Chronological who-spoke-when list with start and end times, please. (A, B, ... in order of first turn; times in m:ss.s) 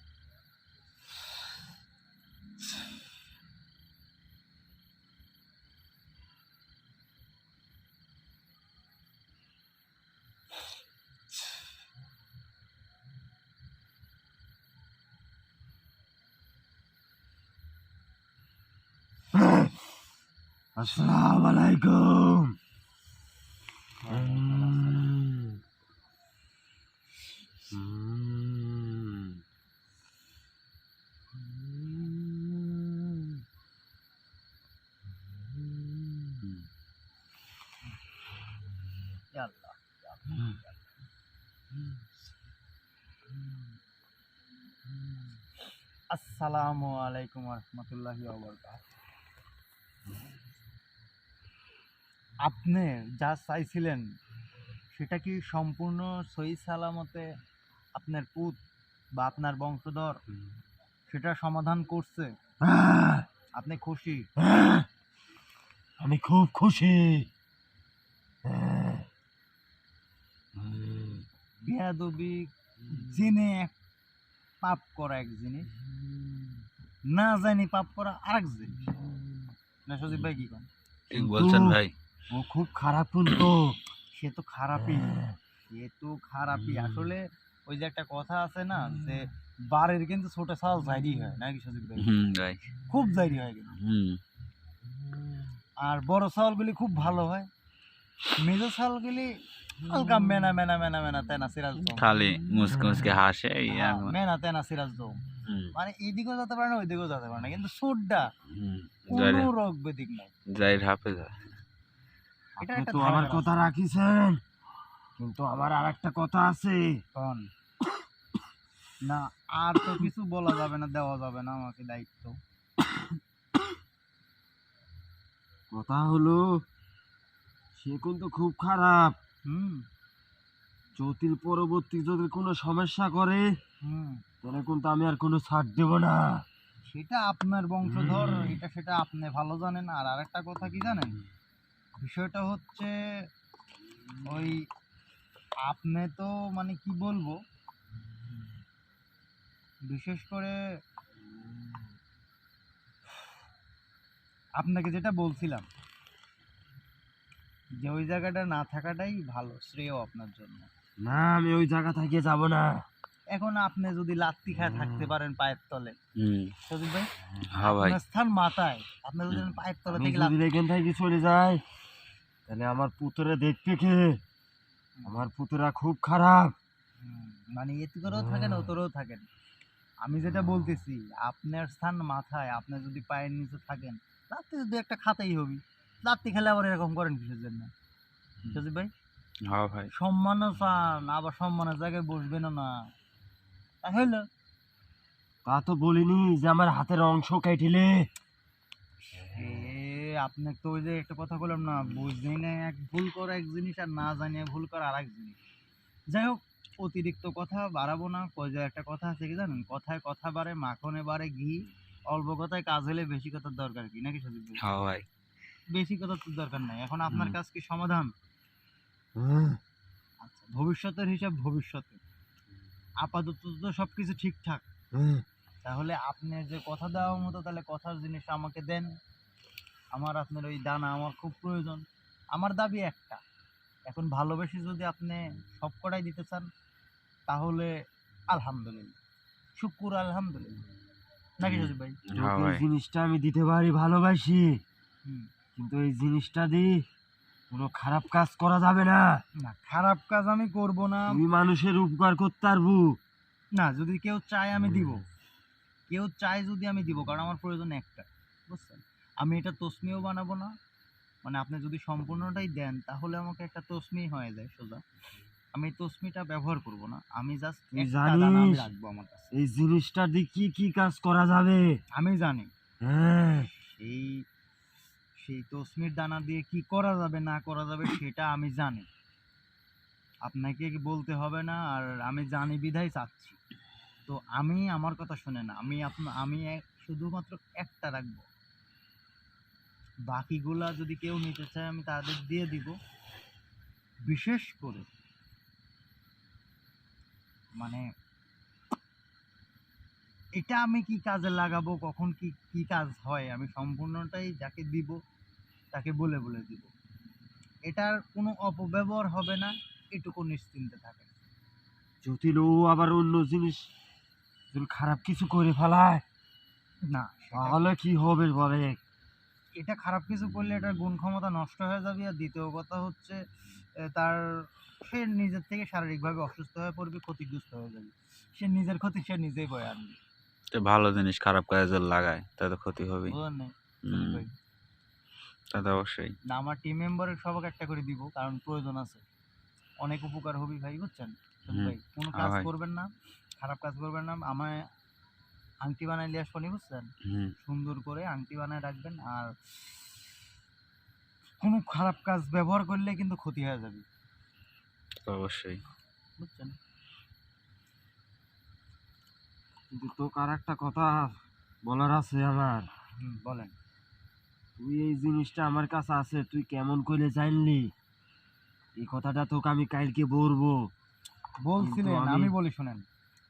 0:19.3-0:19.9 A
0:20.8-0:22.6 A
0:24.0-0:25.1 B
0:24.1-0:25.6 A
0:27.7-0:29.4 A
0:31.6-0:33.4 A
0:35.7-0:36.3 A
0:39.3-0:40.8 B
0:46.1-0:48.8 B
0:52.4-0:54.0 B
0:55.0-0:57.3 B
0:58.0-0:58.6 B
0:59.2-1:00.2 B
1:01.1-1:02.3 B
1:02.6-1:03.3 A
1:03.6-1:04.3 B
1:04.4-1:04.9 A
1:06.0-1:07.3 A
1:08.4-1:09.1 A
1:10.6-1:11.2 A
1:11.6-1:13.7 B
1:14.6-1:15.7 B
1:17.1-1:18.9 B
1:19.9-1:20.7 B
1:21.1-1:21.9 C
1:21.1-1:21.8 A
1:22.3-1:23.8 A
1:24.1-1:32.1 B
1:32.0-1:32.6 C
1:32.8-1:33.8 B
1:33.8-1:34.2 C
1:35.8-1:37.5 B
1:38.4-1:42.1 B
1:42.0-1:44.1 C
1:43.7-1:45.1 B
1:45.5-1:45.7 C
1:45.7-1:48.3 B
1:48.6-1:49.5 C
1:49.1-1:50.3 B
1:50.5-1:51.4 C
1:52.6-1:53.7 B
1:52.6-1:54.4 A
1:55.2-1:57.0 A
1:57.2-1:57.5 B
1:59.0-2:02.4 B
2:05.7-2:06.6 A
2:07.8-2:09.2 A
2:09.5-2:09.8 B
2:11.0-2:13.5 A
2:13.8-2:14.2 B
2:14.4-2:16.4 A
2:16.9-2:21.2 B
2:22.0-2:22.9 B
2:24.3-2:24.6 B
2:25.7-2:27.4 B
2:29.9-2:30.6 B
2:34.6-2:35.7 B
2:37.8-2:40.7 B
2:41.0-2:42.8 A
2:43.3-2:46.0 B
2:46.2-2:46.5 C
2:46.7-2:47.1 B
2:47.5-2:48.0 C
2:47.6-2:50.4 B
2:49.9-2:51.6 A
2:52.5-2:54.2 A
2:55.0-2:56.6 A
2:57.0-2:59.2 B
3:00.0-3:07.7 B
3:08.5-3:08.9 B
3:09.5-3:09.9 C
3:09.9-3:12.8 B
3:13.8-3:14.2 B
3:15.4-3:18.1 A
3:19.3-3:25.4 B
3:26.1-3:34.6 B
3:34.6-3:35.0 C
3:35.7-3:38.1 B
3:39.2-3:39.6 A
3:40.2-3:42.0 B
3:43.0-3:44.6 B
3:45.0-3:45.2 A
3:45.6-3:48.9 B
3:49.9-3:53.2 B
3:53.9-3:56.5 B
3:57.3-3:57.7 B
3:58.3-3:59.0 B
3:59.6-4:00.6 B
4:01.4-4:02.0 B
4:01.4-4:02.6 C
4:02.2-4:04.6 A
4:05.6-4:06.8 A
4:07.5-4:09.1 A
4:09.4-4:11.2 B
4:11.1-4:13.0 A
4:13.6-4:15.0 B
4:15.9-4:20.5 B
4:21.2-4:24.8 B
4:25.6-4:29.3 B
4:27.8-4:28.7 A
4:29.3-4:31.8 A
4:32.0-4:32.5 B
4:32.8-4:33.5 A
4:33.6-4:34.2 B
4:35.2-4:38.9 B
4:40.3-4:43.4 B
4:44.1-4:48.3 B
4:50.1-4:52.8 B
4:54.1-4:54.9 B
4:57.6-4:57.8 B
5:00.4-5:05.0 B
5:05.7-5:06.7 B
5:07.7-5:11.1 B
5:12.0-5:13.7 A
5:14.5-5:16.0 A
5:16.9-5:17.7 B
5:17.3-5:18.8 A
5:19.6-5:23.2 B
5:23.9-5:24.2 B
5:24.9-5:30.0 B
5:30.5-5:33.2 C
5:33.1-5:34.3 B
5:33.9-5:34.2 C
5:35.5-5:36.2 C
5:36.3-5:39.0 B
5:39.8-5:44.6 B
5:41.5-5:42.5 C
5:45.6-5:46.9 B
5:47.1-5:47.3 C
5:47.4-5:49.3 B
5:51.4-5:53.8 B
5:55.0-5:55.6 C
5:56.2-5:56.6 B
5:59.7-6:01.1 A
6:01.6-6:02.7 A
6:03.0-6:03.5 B
6:04.6-6:07.7 A
6:08.8-6:10.7 A
6:11.4-6:12.8 B
6:11.6-6:12.3 A